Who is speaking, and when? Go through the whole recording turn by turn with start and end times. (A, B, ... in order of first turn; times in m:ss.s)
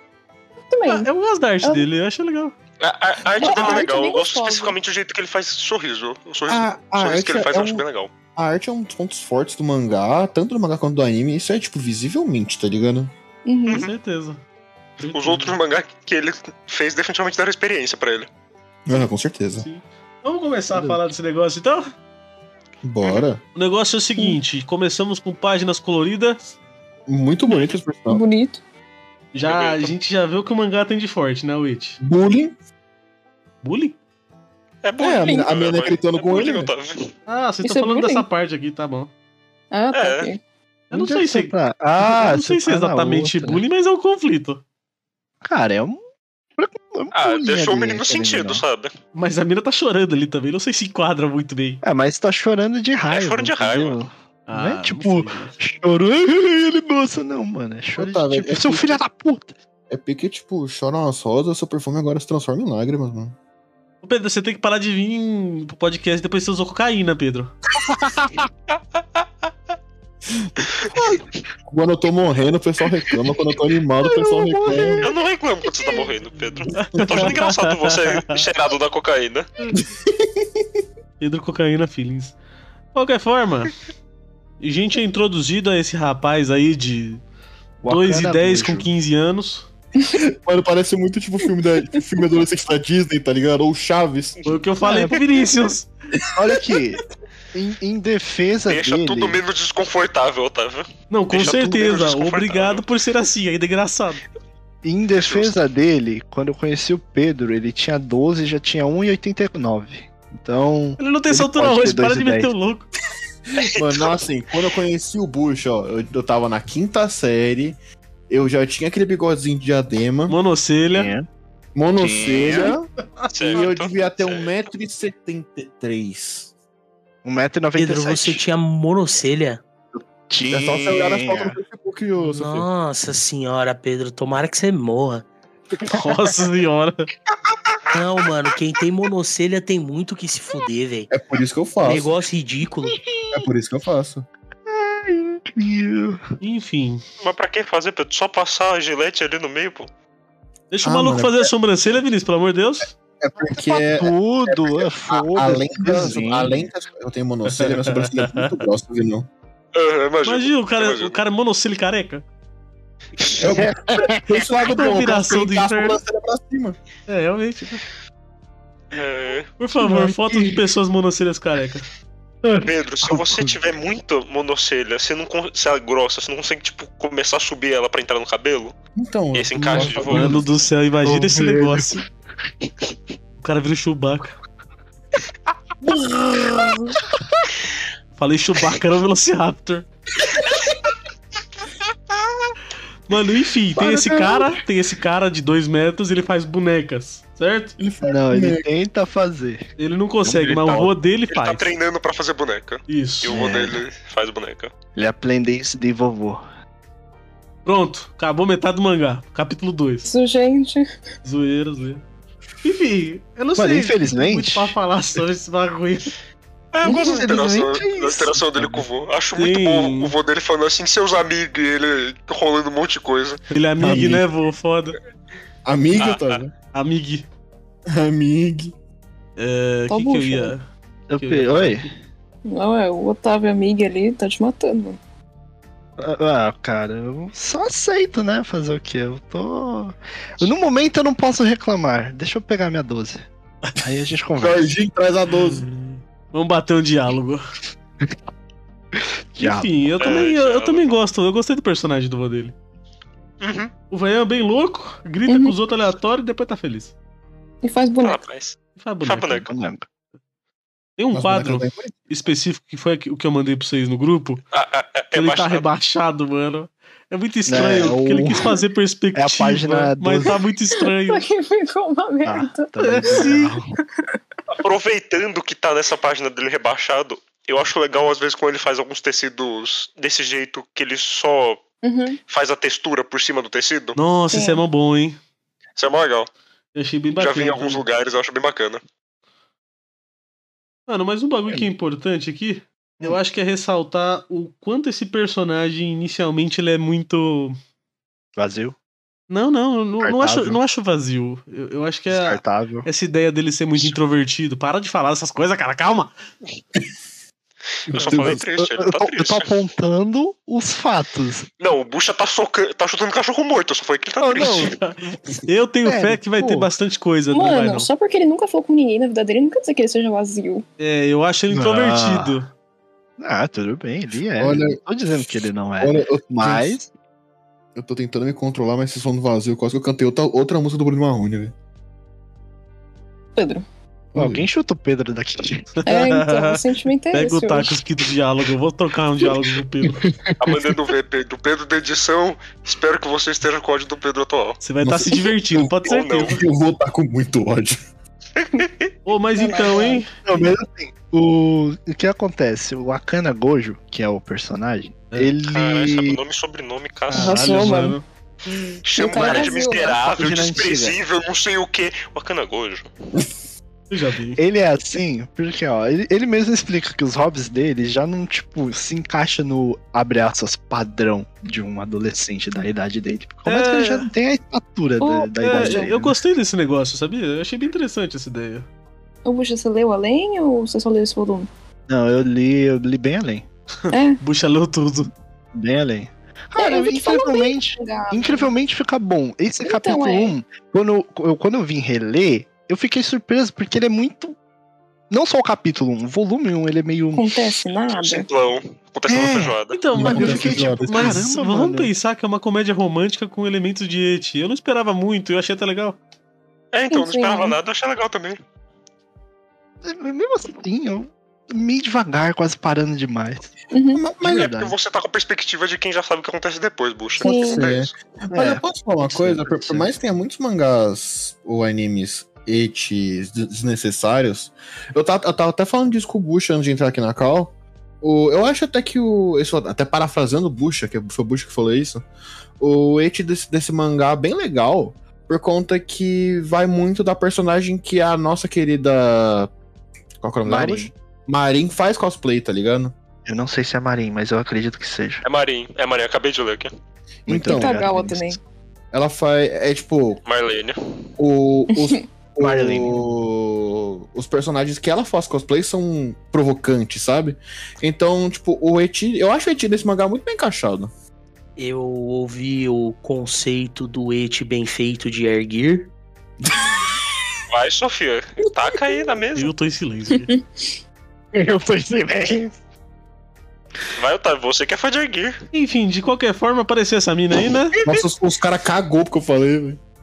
0:00.7-0:01.1 A
0:00.9-0:02.6 B
0:02.8-0:08.1 C
0:03.4-0:04.8 A
0:06.5-0:07.8 D
0:08.4-0:13.1 D
0:13.5-0:13.9 A
0:13.7-0:13.9 C
0:13.7-0:14.4 B
0:15.0-0:15.6 B
0:15.1-0:18.3 C
0:18.9-0:19.7 D
0:19.6-0:21.9 B
0:20.7-0:21.0 E
0:22.8-0:23.4 D
0:23.6-0:26.4 B
0:27.1-0:28.2 D
0:28.1-0:28.6 A
0:29.3-0:32.0 B
0:29.4-0:29.9 C
0:32.0-0:32.6 D
0:33.6-0:34.0 B
0:34.8-0:37.2 C
0:35.0-0:36.7 D
0:35.0-0:35.5 A
0:37.3-0:39.1 B
0:37.6-0:38.3 A
0:39.7-0:40.4 A
0:39.9-0:40.3 C
0:40.9-0:43.6 E
0:40.9-0:44.6 B
0:45.4-0:46.0 E
0:46.6-0:48.6 E
0:47.1-0:48.9 C
0:49.1-0:51.8 B
0:51.8-0:59.6 E
0:53.1-0:54.0 C
0:54.5-0:55.6 B
0:58.0-0:59.0 D
0:59.9-1:03.4 D
1:04.0-1:07.5 B
1:07.8-1:08.3 D
1:11.7-1:15.1 D
1:14.1-1:15.1 E
1:15.0-1:19.5 C
1:16.6-1:18.4 B
1:19.8-1:20.6 D
1:21.2-1:22.4 B
1:22.9-1:23.8 B
1:24.6-1:27.2 B
1:27.8-1:28.9 E
1:27.9-1:29.7 B
1:30.2-1:34.4 D
1:34.5-1:35.9 B
1:34.8-1:35.2 E
1:36.4-1:37.0 E
1:37.5-1:39.4 E
1:38.7-1:42.8 C
1:41.1-1:44.2 B
1:44.8-1:52.5 E
1:45.2-1:45.6 C
1:51.0-1:52.9 B
1:53.6-1:54.2 C
1:53.6-1:57.8 D
1:58.3-2:00.4 D
2:00.3-2:01.1 B
2:00.9-2:01.3 E
2:01.8-2:02.9 D
2:02.0-2:02.8 E
2:03.3-2:03.6 B
2:03.3-2:04.5 C
2:03.5-2:06.5 D
2:07.2-2:08.4 E
2:07.8-2:09.6 F
2:10.3-2:11.6 E
2:10.5-2:12.7 D
2:12.3-2:15.3 F
2:15.7-2:16.2 E
2:15.9-2:17.1 B
2:17.9-2:21.1 F
2:21.1-2:22.1 D
2:21.8-2:23.0 F
2:22.8-2:23.4 E
2:23.3-2:24.3 D
2:24.7-2:26.2 E
2:26.4-2:27.0 B
2:27.2-2:29.9 C
2:30.7-2:32.9 B
2:30.8-2:31.5 D
2:33.2-2:39.3 D
2:33.4-2:36.7 E
2:37.5-2:38.7 B
2:39.7-2:41.2 C
2:40.2-2:42.2 B
2:43.4-2:44.4 E
2:43.4-2:46.8 D
2:44.7-2:46.0 B
2:47.1-2:47.8 B
2:48.9-2:49.5 C
2:49.6-2:51.8 B
2:49.8-2:50.6 E
2:52.4-2:53.6 E
2:52.6-2:58.8 C
2:59.0-3:00.4 D
2:59.3-3:00.4 C
2:59.7-3:00.4 E
3:00.1-3:02.0 B
3:01.0-3:01.9 D
3:03.4-3:04.4 B
3:08.1-3:09.9 B
3:13.1-3:17.8 B
3:13.8-3:14.4 E
3:17.8-3:18.7 D
3:18.0-3:19.6 E
3:19.8-3:21.7 B
3:20.3-3:24.7 C
3:22.9-3:23.5 B
3:23.3-3:23.8 E
3:25.0-3:26.4 E
3:27.6-3:30.1 B
3:30.1-3:30.8 A
3:31.2-3:32.0 B
3:32.6-3:36.1 B
3:33.6-3:34.8 E
3:36.7-3:43.4 C
3:36.8-3:38.4 E
3:36.8-3:37.2 A
3:39.4-3:40.1 B
3:43.5-3:45.0 B
3:43.8-3:44.2 E
3:45.6-3:46.5 D
3:46.0-3:46.4 C
3:46.7-3:47.3 B
3:47.9-3:48.7 D
3:49.4-3:51.9 B
3:49.9-3:50.5 A
3:51.1-3:51.9 E
3:52.5-3:55.0 A
3:56.0-4:03.3 E
4:03.8-4:04.6 E
4:04.4-4:05.6 D
4:05.3-4:07.4 B
4:09.0-4:10.3 E
4:09.4-4:12.6 B
4:10.0-4:11.0 C
4:13.4-4:13.7 C
4:13.9-4:16.9 B
4:15.3-4:15.6 A
4:17.6-4:18.2 A
4:18.0-4:19.5 C
4:18.8-4:19.5 B
4:19.5-4:19.9 E
4:21.0-4:24.4 B
4:21.1-4:22.0 D
4:24.5-4:25.6 C
4:25.1-4:31.3 B
4:27.5-4:28.5 E
4:29.2-4:30.4 E
4:31.0-4:33.4 A
4:32.2-4:33.7 E
4:32.8-4:33.6 B
4:34.5-4:41.6 C
4:41.8-4:42.2 A
4:42.3-4:44.0 C
4:44.0-4:45.2 B
4:44.3-4:44.6 A
4:45.8-4:46.3 C
4:46.7-4:47.8 B
4:47.2-4:48.8 C
4:50.9-4:57.6 B
4:58.4-4:58.8 E
4:59.3-5:06.1 B
5:00.0-5:00.6 E
5:02.1-5:02.9 E
5:07.9-5:09.5 C
5:07.9-5:11.5 E
5:08.0-5:08.4 D
5:11.6-5:14.8 C
5:14.2-5:16.7 E
5:14.2-5:17.9 B
5:17.3-5:20.6 A
5:20.8-5:22.5 B
5:21.5-5:22.4 E
5:23.2-5:26.9 E
5:24.4-5:24.8 D
5:25.8-5:26.8 D
5:27.8-5:31.5 D
5:33.4-5:33.6 A
5:34.1-5:34.4 D
5:34.2-5:35.9 E
5:35.8-5:40.1 B
5:35.9-5:37.8 A
5:40.0-5:40.6 E
5:40.4-5:44.6 C
5:44.6-5:46.4 B
5:44.8-5:47.8 D
5:45.9-5:46.4 C
5:48.4-5:48.9 C
5:49.0-5:50.1 B
5:49.4-5:50.0 A
5:50.2-5:56.2 E
5:55.5-5:57.5 C
5:57.1-5:58.0 B
5:57.1-5:58.0 A
5:58.8-6:02.9 C
5:59.0-6:00.0 A
5:59.0-6:01.0 E
6:03.9-6:04.4 B
6:04.4-6:16.2 E
6:13.5-6:14.1 B
6:15.0-6:15.9 A
6:15.4-6:18.7 B
6:19.2-6:21.5 A
6:21.9-6:23.5 E
6:23.9-6:25.1 B
6:23.9-6:24.2 A
6:25.5-6:34.4 E
6:26.6-6:28.5 A
6:29.6-6:30.4 A
6:35.1-6:37.4 E
6:37.2-6:38.3 A
6:37.9-6:39.8 C
6:39.1-6:41.9 E
6:39.7-6:46.0 B
6:40.0-6:41.2 D
6:46.7-6:48.4 C
6:46.9-6:47.6 A
6:49.8-6:53.5 E
6:53.7-6:54.0 A
6:54.0-6:54.5 D
6:54.2-6:54.8 E
6:54.4-6:58.0 C
6:57.2-6:57.6 A
6:57.2-7:12.0 D
6:57.2-6:57.5 E
6:58.3-6:59.9 E
7:12.6-7:19.5 D
7:20.2-7:23.0 D
7:20.5-7:20.9 E
7:23.3-7:25.2 E
7:25.2-7:26.7 C
7:27.3-7:27.8 D
7:27.3-7:28.4 E
7:27.5-7:28.4 A
7:28.9-7:30.2 D
7:30.2-7:31.0 C
7:31.2-7:40.9 D
7:32.4-7:33.0 E
7:41.6-7:45.9 F
7:47.5-7:49.5 C
7:49.4-7:50.3 B
7:51.3-7:52.5 E
7:53.9-7:55.4 C
7:55.5-7:57.8 B
7:57.8-7:59.8 D